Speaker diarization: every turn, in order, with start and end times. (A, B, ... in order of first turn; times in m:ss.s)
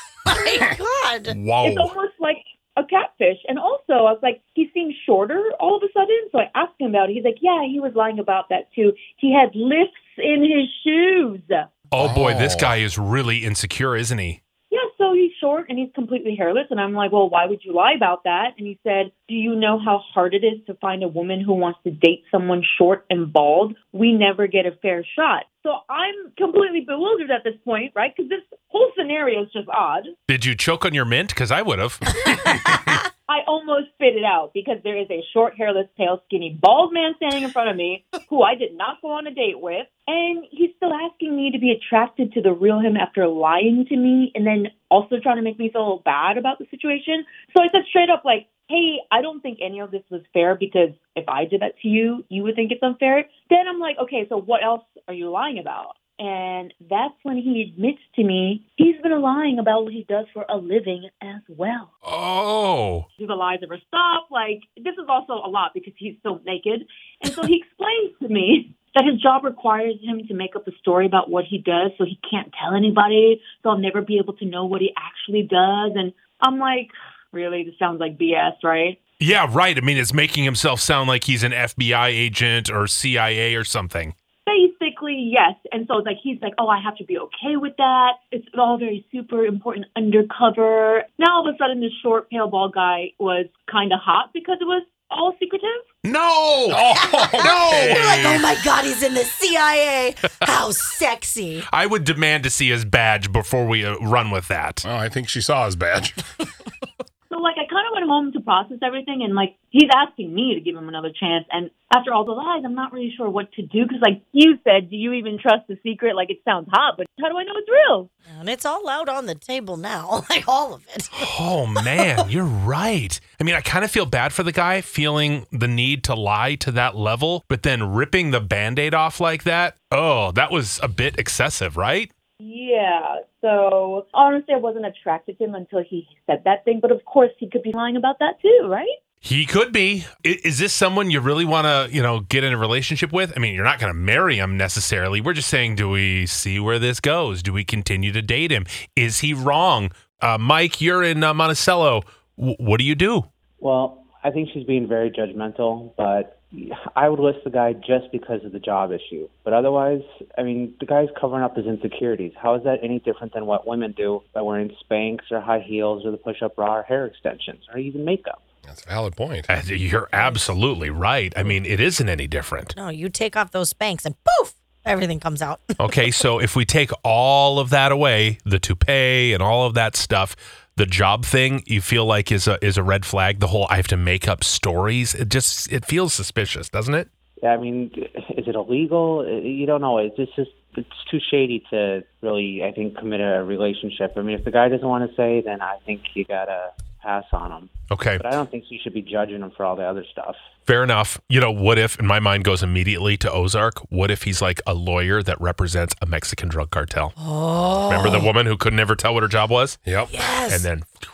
0:00.2-0:01.4 A
0:01.3-0:01.9 B
0:01.6-0:11.8 C
0:11.9-0:14.4 B
0:12.0-0:12.7 D
0:14.7-0:30.1 C
0:30.3-0:33.0 B
0:33.3-1:01.9 C
1:02.1-1:03.1 B
1:03.2-1:19.0 C
1:19.2-1:24.1 B
1:24.4-1:35.9 C
1:36.0-1:36.8 B
1:36.7-1:38.3 D
1:36.9-1:41.7 A
1:37.4-1:38.4 B
1:41.7-1:44.8 B
1:44.8-1:46.2 D
1:47.3-1:58.1 C
1:58.3-2:01.3 A
2:01.2-2:12.1 B
2:12.4-2:19.0 C
2:19.2-2:33.3 B
2:33.6-2:48.4 E
2:48.6-2:49.6 D
2:49.5-2:52.8 B
2:50.1-2:50.5 A
2:52.8-2:55.9 A
2:55.8-3:07.1 B
3:07.4-3:20.4 E
3:17.9-3:18.3 B
3:20.6-3:27.1 B
3:27.2-3:28.3 A
3:27.9-3:29.8 B
3:29.8-3:30.1 D
3:30.1-3:30.7 A
3:30.5-3:30.9 B